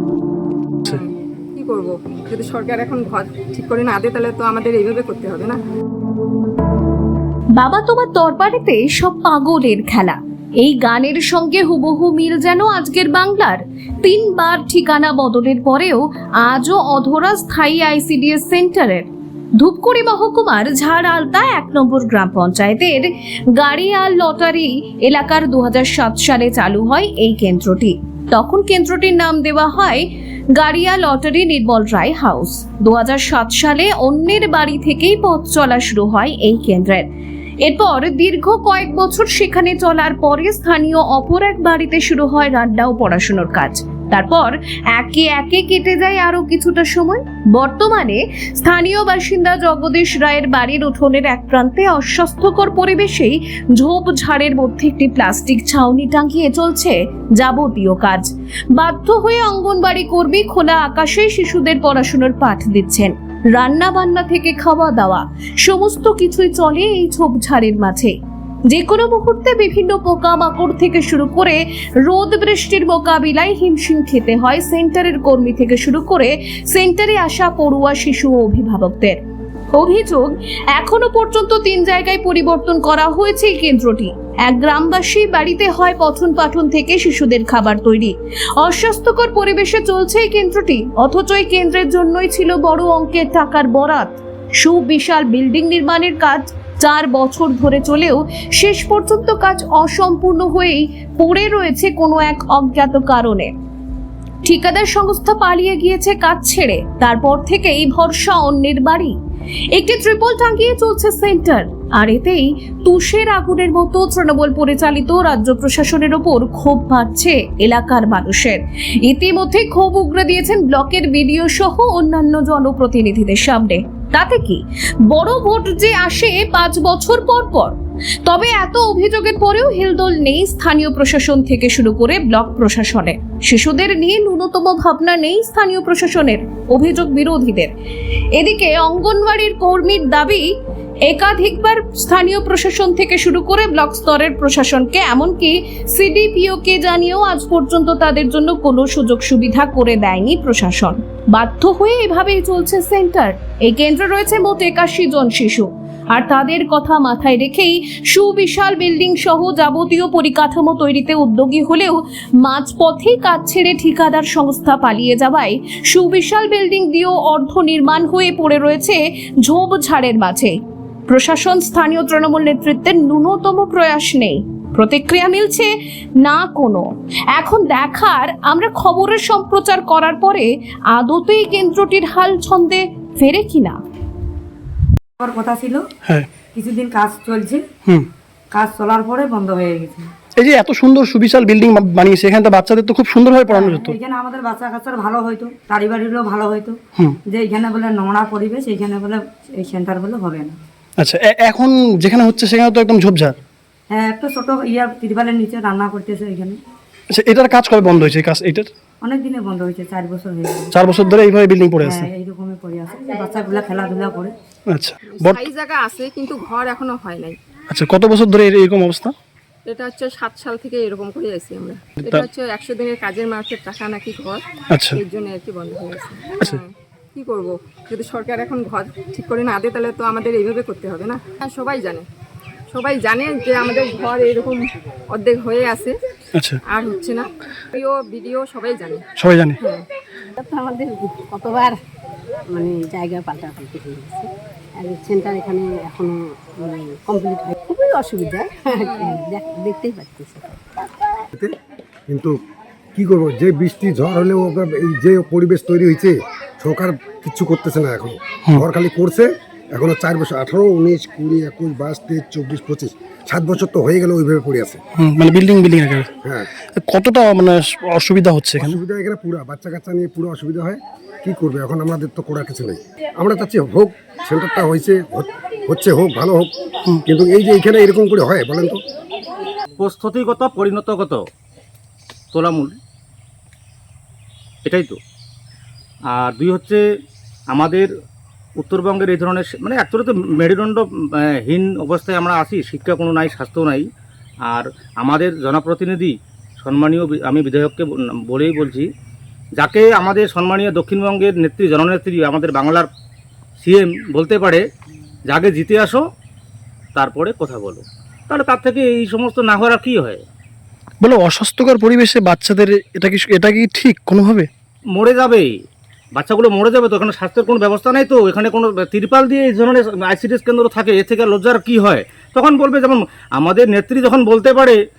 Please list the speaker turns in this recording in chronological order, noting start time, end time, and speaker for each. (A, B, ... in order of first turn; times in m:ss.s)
0:00.9-0:05.6 A
0:07.5-0:37.1 B
0:37.6-1:08.1 B
1:08.7-1:19.2 B
1:19.7-1:43.5 B
1:44.4-1:49.1 B
1:49.7-2:17.7 B
2:18.3-2:20.5 B
2:21.0-2:50.6 B
2:51.1-3:03.8 B
3:05.2-3:05.8 C
3:06.5-3:07.6 C
3:08.5-3:10.1 C
3:10.4-3:14.0 D
3:13.5-3:20.6 C
3:21.0-3:23.4 D
3:23.9-3:26.6 C
3:27.1-3:28.7 D
3:29.0-3:30.7 C
3:30.7-3:32.1 D
3:31.8-3:34.3 C
3:34.7-3:35.4 D
3:35.2-3:37.4 A
3:37.7-3:39.1 D
3:39.7-3:44.4 A
3:44.7-3:45.0 D
3:44.9-3:52.0 A
3:52.7-3:56.0 A
3:56.3-3:56.6 D
3:56.7-3:59.0 A
3:59.2-3:59.6 D
3:59.6-3:59.8 A
4:00.4-4:01.8 E
4:02.5-4:10.4 E
4:08.8-4:09.2 A
4:12.1-4:12.3 F
4:12.9-4:24.8 F
4:25.0-4:26.1 D
4:26.2-4:26.5 F
4:26.8-4:28.8 D
4:28.6-4:36.5 F
4:37.0-4:38.8 F
4:39.8-4:41.2 G
4:42.3-4:42.7 G
4:44.6-4:45.0 G
4:46.1-4:46.8 G
4:47.5-4:47.9 G
4:48.6-4:53.8 G
4:54.5-4:58.9 G
4:59.6-5:02.9 G
5:03.6-5:04.6 G
5:05.3-5:06.0 G
5:07.0-5:10.2 G
5:11.0-5:14.5 D
5:14.9-5:15.5 G
5:16.1-5:24.8 G